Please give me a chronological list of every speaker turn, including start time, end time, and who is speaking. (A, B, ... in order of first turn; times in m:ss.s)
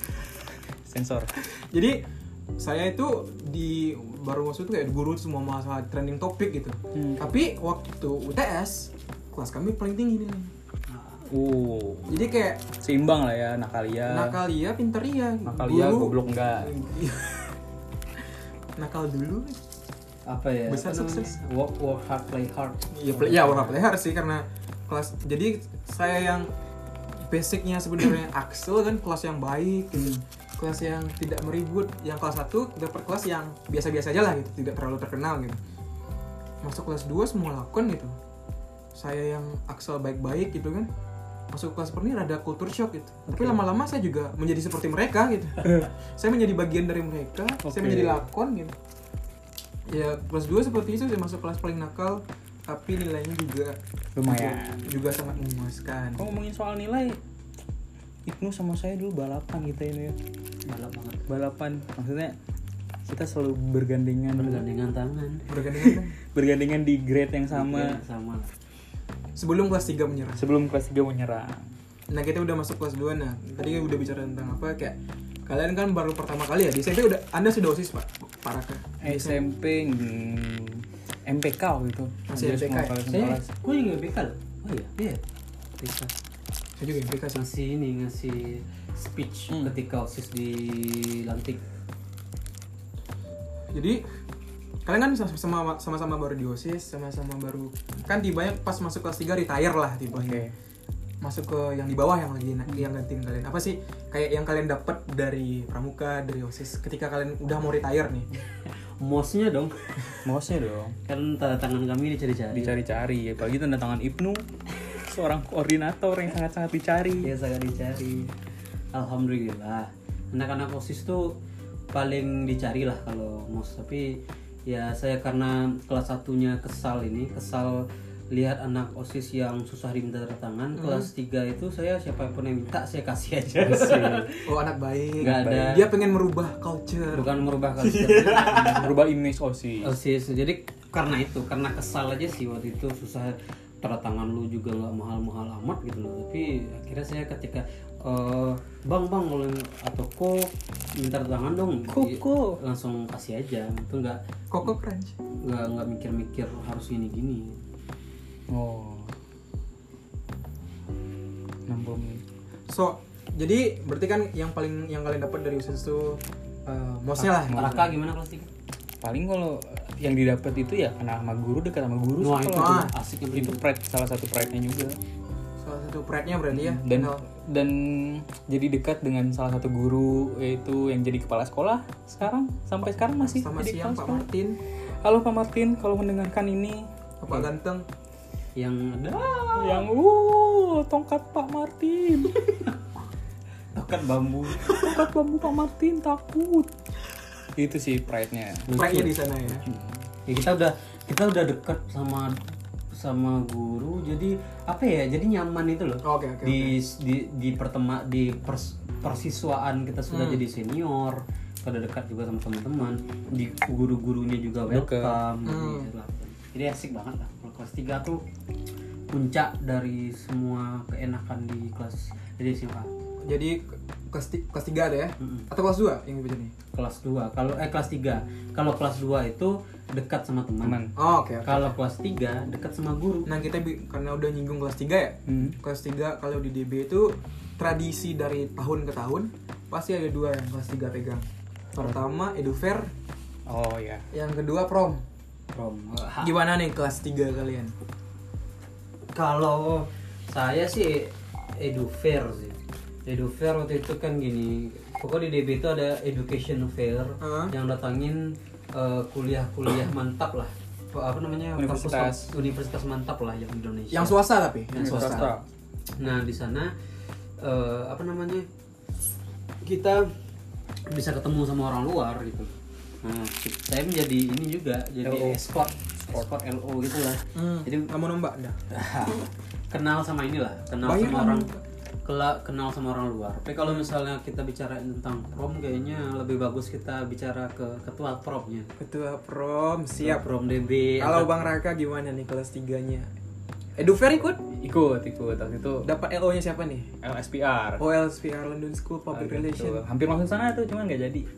0:00.8-0:01.3 A
0:01.4-0:02.0 B
0:02.6-0:10.5 B
0:06.9-0:07.3 A
0:10.9-0:11.2 C
0:11.3-0:12.2 A
0:12.1-0:12.7 B
0:12.8-0:14.4 A
0:14.1-0:17.6 B
0:15.4-0:16.7 A
0:18.8-0:19.6 B
0:20.3-0:23.8 C
0:20.7-0:21.4 B
0:22.9-0:26.5 B
0:27.3-0:35.6 B
0:36.6-0:38.2 B
0:38.9-0:40.9 B
0:41.5-0:48.7 B
0:43.3-0:43.6 A
0:45.6-0:45.9 A
0:47.6-0:48.2 A
0:49.9-0:56.3 B
0:54.2-0:54.8 A
0:56.2-0:57.2 A
0:58.2-1:00.2 A
1:00.6-1:01.2 C
1:01.3-1:02.3 A
1:03.0-1:04.6 A
1:04.3-1:05.5 C
1:05.5-1:06.1 B
1:05.8-1:08.0 A
1:07.5-1:08.5 C
1:09.4-1:10.4 B
1:10.4-1:11.7 A
1:12.1-1:19.4 B
1:19.0-1:23.5 A
1:22.3-1:23.0 B
1:23.0-1:25.2 C
1:25.8-1:26.1 C
1:26.8-1:27.4 B
1:27.3-1:31.6 C
1:33.7-1:34.0 B
1:34.8-1:40.4 B
1:40.1-1:40.5 A
1:41.2-1:48.3 B
1:48.6-1:50.2 C
1:50.2-1:51.0 A
1:51.0-1:52.8 C
1:52.5-1:57.3 A
1:57.2-1:58.3 C
1:58.9-2:01.4 C
2:01.9-2:14.5 C
2:10.8-2:11.1 B
2:13.6-2:14.3 A
2:14.4-2:18.9 B
2:15.2-2:15.8 C
2:15.2-2:15.8 A
2:17.1-2:18.9 C
2:18.5-2:19.9 A
2:19.8-2:34.2 C
2:31.9-2:32.6 A
2:34.5-2:35.2 B
2:35.4-2:37.6 C
2:38.5-2:39.1 A
2:41.7-2:42.2 A
2:42.7-2:47.8 B
2:47.2-2:48.5 C
2:47.5-2:47.9 A
2:49.0-2:55.0 A
2:52.2-2:53.6 C
2:52.5-2:52.9 B
2:55.6-2:57.2 B
2:56.5-3:04.2 A
3:03.2-3:04.6 B
3:05.0-3:06.8 A
3:07.2-3:07.9 B
3:08.6-3:09.9 C
3:09.6-3:12.4 A
3:12.5-3:12.7 C
3:13.7-3:14.7 C
3:14.6-3:16.7 A
3:17.6-3:18.7 A
3:18.7-3:19.1 C
3:18.7-3:19.6 B
3:19.6-3:20.0 A
3:20.2-3:22.4 C
3:22.9-3:38.2 C
3:26.0-3:26.8 B
3:30.1-3:30.4 B
3:34.7-3:35.2 A
3:35.4-3:35.9 B
3:39.1-3:42.9 C
3:43.2-3:46.5 B
3:45.2-3:45.5 C
3:46.7-3:50.8 C
3:50.6-3:50.9 A
3:51.0-3:51.7 B
3:51.4-3:53.3 C
3:53.2-4:02.9 B
3:55.3-3:55.6 A
4:03.5-4:04.1 A
4:04.1-4:05.0 B
4:05.5-4:06.4 C
4:06.2-4:07.7 B
4:09.1-4:25.3 C
4:17.2-4:17.5 B
4:21.6-4:22.3 A
4:23.9-4:25.3 B
4:24.8-4:25.4 A
4:26.0-4:26.7 C
4:27.4-4:28.5 C
4:29.6-4:30.1 C
4:30.9-4:37.9 C
4:35.0-4:36.3 A
4:37.3-4:38.6 B
4:38.7-4:41.5 C
4:40.8-4:41.6 B
4:42.0-4:48.7 C
4:48.8-4:50.3 B
4:50.0-4:51.4 C
4:51.0-4:53.1 B
4:53.8-4:54.4 B
4:54.5-4:55.9 A
4:55.8-4:56.9 B
4:57.0-4:57.8 A
4:57.8-4:59.8 B
4:59.1-5:01.3 A